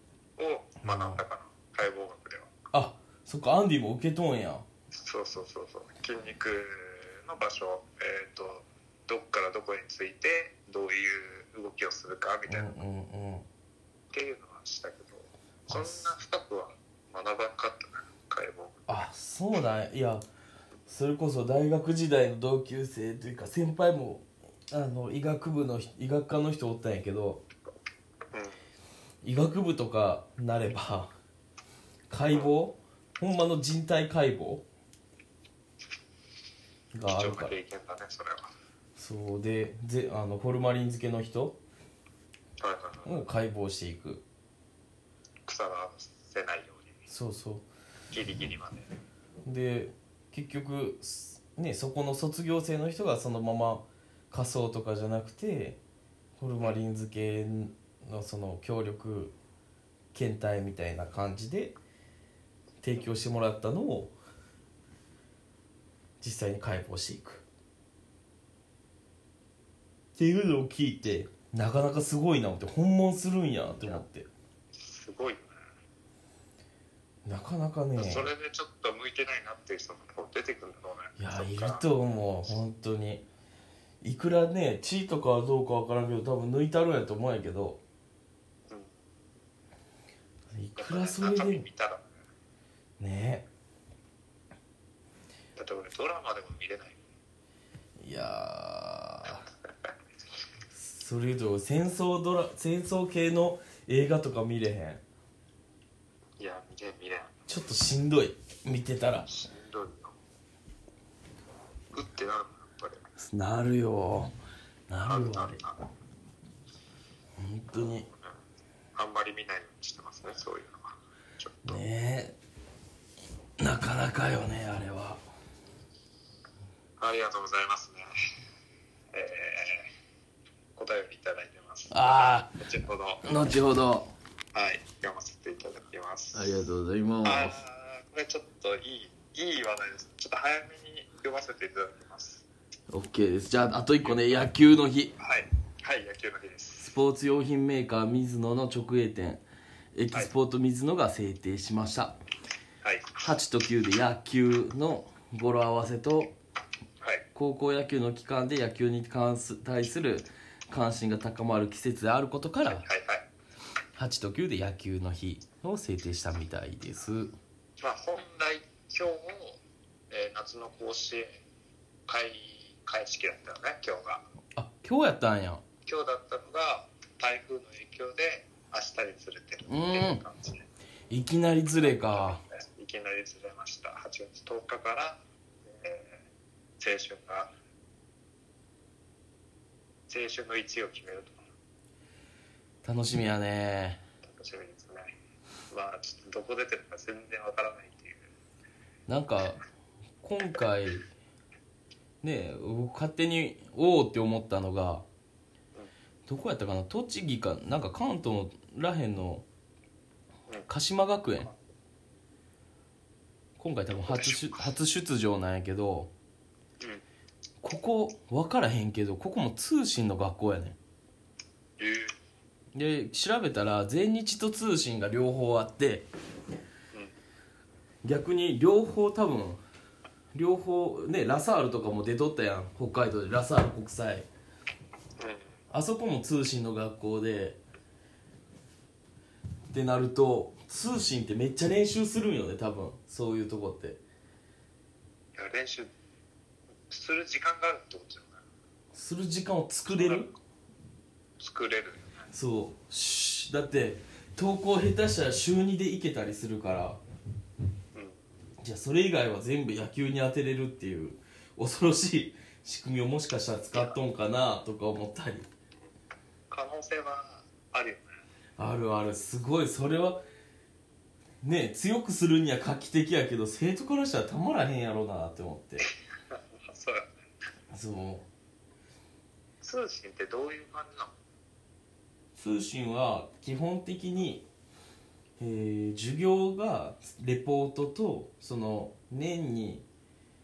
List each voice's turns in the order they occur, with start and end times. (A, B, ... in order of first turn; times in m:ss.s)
0:00.4-0:02.5 A
0:00.8-0:01.2 B
0:02.7-0:04.7 B
0:04.9-0:12.8 A
0:12.5-0:13.5 B
0:14.1-0:18.8 A
0:15.7-0:16.1 B
0:18.9-0:20.2 B
0:20.9-0:27.4 B
0:28.3-0:28.6 A
0:29.2-0:31.1 B
0:32.1-0:34.6 B
0:36.9-0:37.5 B
0:37.1-0:38.5 A
0:39.0-0:41.6 B
0:42.6-0:43.2 A
0:43.0-0:44.2 B
0:45.5-0:47.0 A
0:47.1-0:47.6 B
0:48.1-0:48.9 A
0:49.4-0:55.8 B
0:56.4-0:59.4 B
1:00.1-1:01.8 B
1:02.8-1:04.1 B
1:06.2-1:07.4 B
1:10.2-1:14.3 B
1:14.8-1:15.6 A
1:17.2-1:18.3 B
1:18.0-1:21.8 A
1:21.2-1:23.2 B
1:24.0-1:27.8 B
1:30.5-1:31.6 B
1:30.8-1:32.0 A
1:33.0-1:33.5 B
1:35.6-1:37.0 A
1:38.0-1:39.4 B
1:40.7-1:45.0 B
1:46.4-1:47.3 A
1:47.5-1:49.3 B
1:49.3-1:50.2 A
1:51.9-1:53.0 A
1:53.2-1:54.3 B
1:54.9-1:55.6 B
1:55.0-1:55.8 A
1:57.4-1:58.1 B
1:57.8-1:58.3 A
1:59.0-2:01.8 A
2:01.6-2:02.4 B
2:03.6-2:05.2 B
2:07.0-2:08.0 A
2:09.1-2:09.9 A
2:10.8-2:13.3 A
2:11.9-2:12.5 B
2:13.2-2:14.1 B
2:14.5-2:16.5 A
2:16.3-2:17.6 B
2:17.2-2:22.4 A
2:22.9-2:25.2 B
2:24.0-2:24.5 A
2:25.2-2:26.9 A
2:26.8-2:29.4 B
2:30.0-2:32.2 B
2:32.8-2:33.2 A
2:33.2-2:36.4 B
2:37.4-2:42.8 B
2:42.7-2:43.2 A
2:44.0-2:47.3 B
2:47.8-2:49.6 A
2:50.1-2:51.4 A
2:52.1-2:54.2 A
2:54.6-2:55.6 B
2:55.9-3:00.6 A
2:59.7-3:00.2 B
3:01.1-3:02.4 B
3:01.8-3:06.2 A
3:06.8-3:07.5 A
3:10.1-3:11.4 A
3:12.8-3:14.0 B
3:14.2-3:15.1 A
3:15.7-3:18.2 A
3:19.1-3:19.6 B
3:20.2-3:21.0 B
3:22.2-3:25.0 B
3:26.3-3:29.5 B
3:30.7-3:31.5 B
3:33.6-3:36.1 B
3:33.9-3:34.7 A
3:37.6-3:40.8 B
3:41.8-3:42.1 A
3:42.7-3:46.1 B
3:48.0-3:49.6 B
3:50.3-3:54.3 B
3:55.2-3:55.5 A
3:55.7-3:57.6 B
3:59.7-4:04.0 B
4:05.4-4:05.9 A
4:06.9-4:08.4 A
4:08.9-4:10.3 B
4:09.9-4:10.3 A
4:11.4-4:12.3 A
4:12.3-4:17.0 B
4:18.6-4:25.5 B
4:26.5-4:28.1 A
4:28.6-4:30.2 B
4:31.4-4:35.8 B
4:35.8-4:37.1 A
4:37.7-4:38.3 B
4:39.6-4:41.1 A
4:42.4-4:44.5 B
4:45.4-4:49.8 B